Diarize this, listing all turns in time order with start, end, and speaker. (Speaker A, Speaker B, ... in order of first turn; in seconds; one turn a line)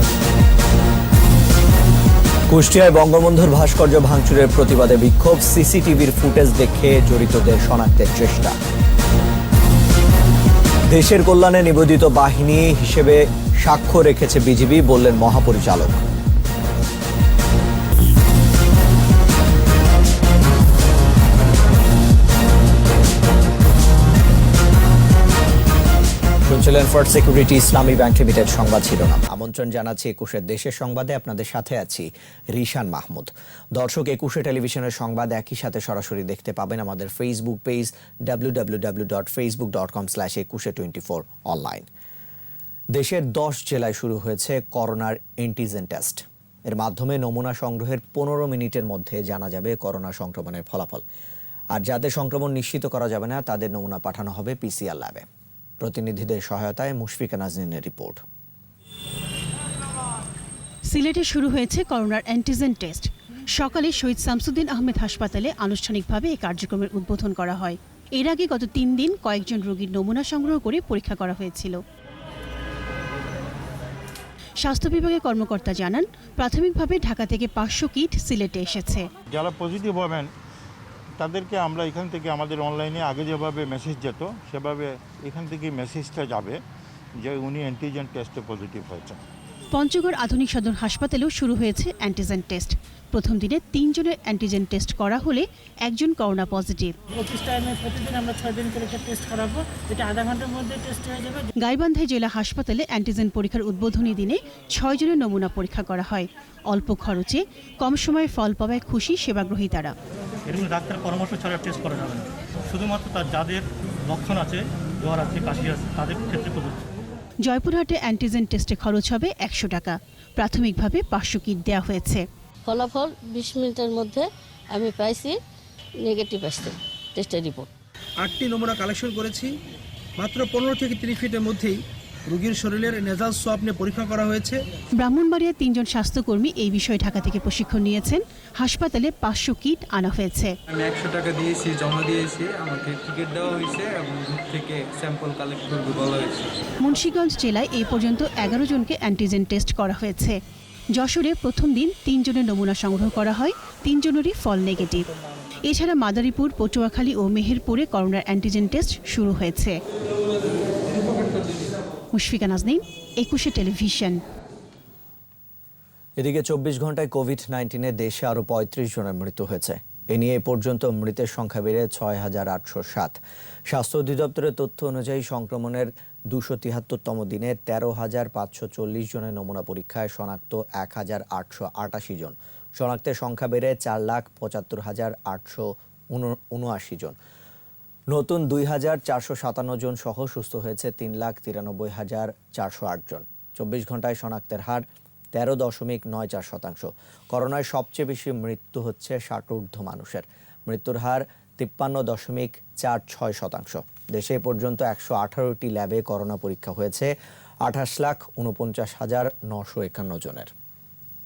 Speaker A: 2.5-8.6
Speaker A: 10.9-16.0
Speaker A: 26.4-41.9
Speaker A: 42.9-51.0
Speaker A: 51.7-55.2
Speaker A: 55.8-58.2
Speaker B: 60.9-71.8
Speaker B: 74.6-79.1
Speaker C: 79.3-80.3
Speaker C: 81.2-86.6
Speaker C: 87.2-89.2
Speaker B: 89.7-97.0
Speaker D: 97.1-101.4
Speaker B: 101.6-109.9
Speaker E: 110.5-116.9
Speaker B: 117.4-122.2
Speaker F: 122.7-125.4
Speaker F: 126.0-127.7
Speaker G: 128.2-129.4
Speaker G: 130.2-131.7
Speaker G: 132.4-133.5
Speaker B: 135.0-140.5
Speaker H: 140.7-146.5
Speaker B: 146.8-150.4
Speaker B: 150.9-155.1
Speaker B: 155.6-159.8
Speaker B: 162.1-164.2
Speaker A: 166.2-187.2
Speaker A: 188.1-207.1
Speaker A: 207.6-210.5